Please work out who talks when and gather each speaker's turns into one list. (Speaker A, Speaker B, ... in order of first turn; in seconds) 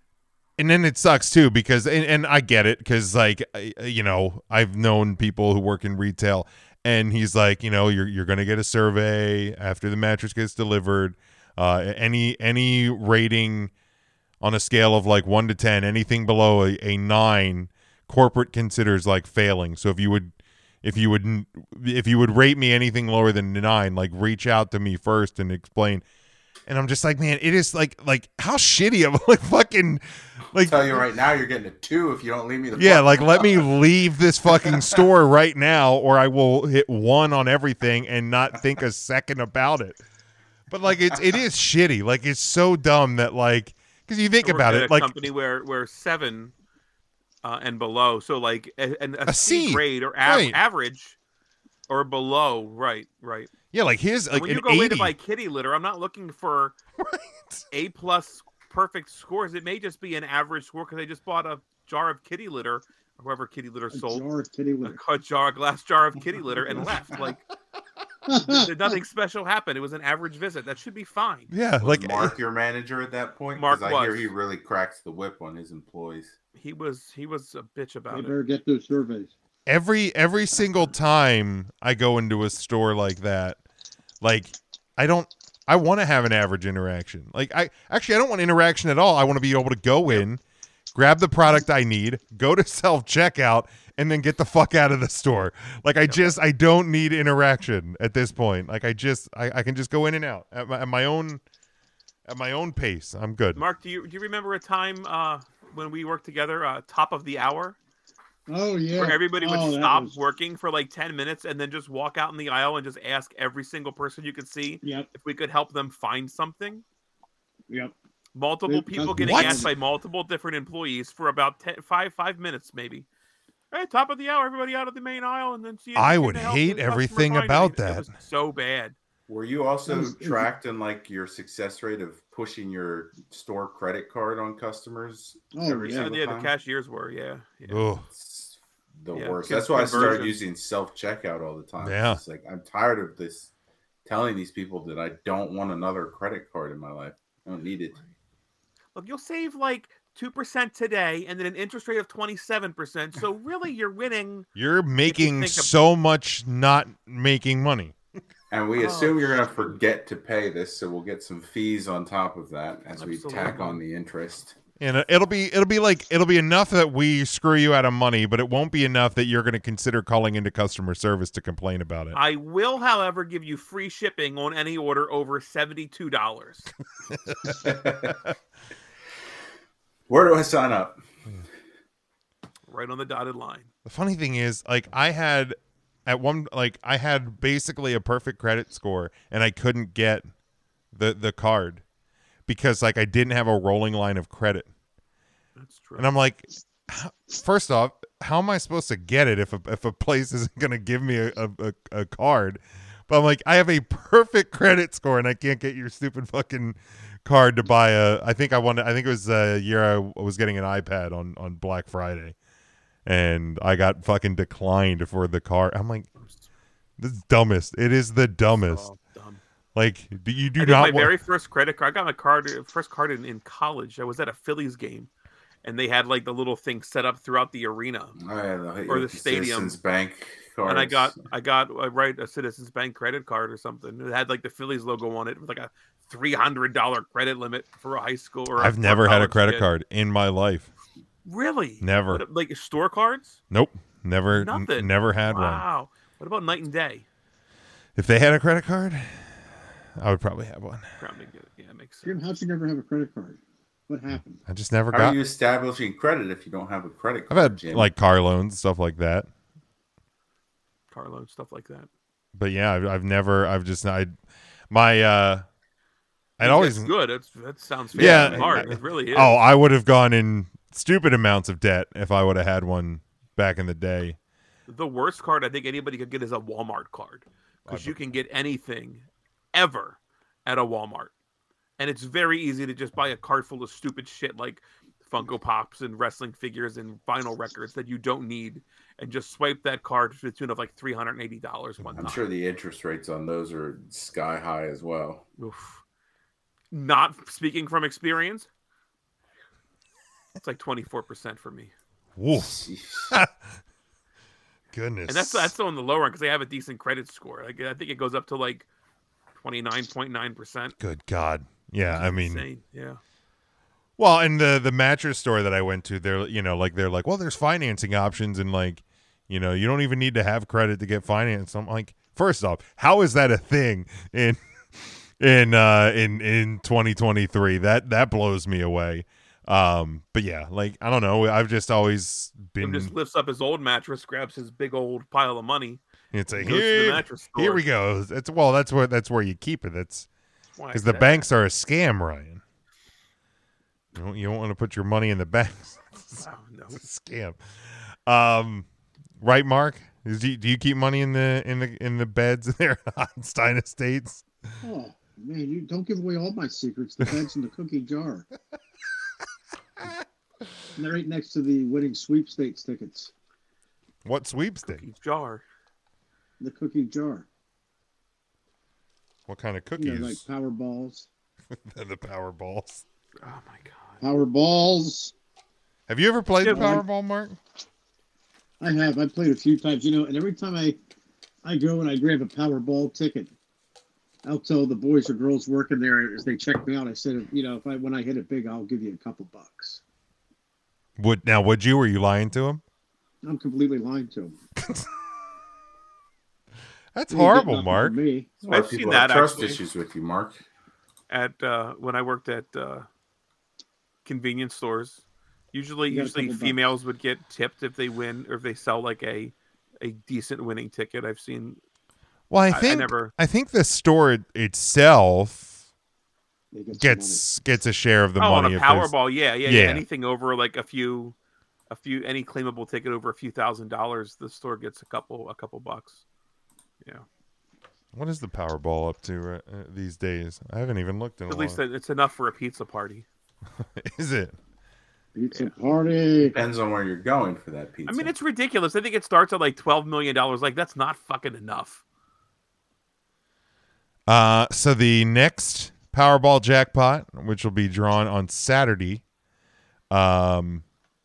Speaker A: 0.6-13.7, 14.4-26.0, 26.7-31.1, 32.7-40.0, 40.7-45.3, 49.3-50.6, 53.7-55.1, 57.0-57.6, 71.5-72.3, 79.7-83.6, 84.2-90.4, 90.9-101.4, 102.3-103.6, 119.2-119.7, 126.0-128.1, 137.7-138.1, 141.8-142.2, 154.5-157.9, 164.8-172.2, 177.1-178.3, 183.8-190.3, 190.9-191.8, 192.5-194.7, 196.0-212.3, 213.0-216.1, 217.0-218.8, 219.7-221.2, 238.6-240.7, 241.8-242.2, 243.5-245.6, 247.9-250.9, 254.4-255.2, 257.3-259.3, 262.3-264.1, 264.7-265.4, 266.4-266.9, 267.9-274.2, 277.7-278.0, 302.1-303.4, 304.7-305.5, 310.8-312.4, 314.0-332.9, 336.1-340.1, 340.7-342.4, 343.9-348.6, 349.2-354.2, 364.0-364.8, 369.3-370.2, 371.5-372.8, 375.9-377.4, 391.0-392.6, 396.9-398.0, 412.3-415.5, 416.8-419.8, 427.9-431.6, 433.6-434.4, 444.1-449.0, 449.9-450.6
Speaker B: 30.6-33.7, 34.5-34.8, 71.8-76.3, 129.3-136.5, 138.1-143.5, 144.0-147.9, 158.5-164.5, 177.6-178.2, 180.1-181.0, 228.2-231.2, 254.9-257.9, 267.9-268.8, 291.9-295.2, 302.3-303.1, 398.4-400.4, 436.2-438.1
Speaker C: 44.4-46.5, 47.4-51.2, 51.9-53.5, 54.3-56.7, 57.7-64.2, 64.8-67.4, 68.4-71.5, 73.5-74.3, 76.6-78.3, 103.5-107.8, 108.9-116.8, 118.3-123.0, 123.7-128.9, 135.8-137.8, 139.1-140.4, 148.9-154.5, 155.1-155.7, 158.8-159.4, 162.9-163.8, 172.1-176.7, 182.7-183.7, 195.6-196.1, 218.6-219.4, 220.6-225.1, 225.6-228.2, 228.9-229.8, 230.6-239.7, 241.2-243.4, 244.3-247.0, 251.0-252.1, 260.9-261.9, 266.4-269.4, 274.7-281.1, 281.8-292.2, 295.4-295.8, 296.7-298.5, 300.4-301.7, 305.1-308.7, 309.3-310.8, 311.8-313.0, 332.6-337.6, 340.6-341.2, 346.2-346.8, 364.6-365.4, 373.2-374.0, 376.4-376.8, 398.5-399.6, 401.1-402.9, 404.0-411.6, 412.5-413.1, 418.2-421.1, 421.7-426.0, 431.3-433.1, 437.9-441.8
Speaker D: 63.9-65.0, 68.3-68.9, 78.1-79.3, 108.5-110.2, 114.8-115.1, 117.7-117.9, 118.7-119.7, 129.9-130.5, 135.5-136.1, 252.0-254.4, 354.6-358.3, 360.8-363.1, 366.4-367.2, 369.8-371.1, 374.0-375.1, 376.5-376.8, 378.6-380.8, 381.4-383.3, 384.2-389.8, 393.2-394.4, 397.1-398.3, 405.9-406.6, 416.5-417.2, 435.1-436.4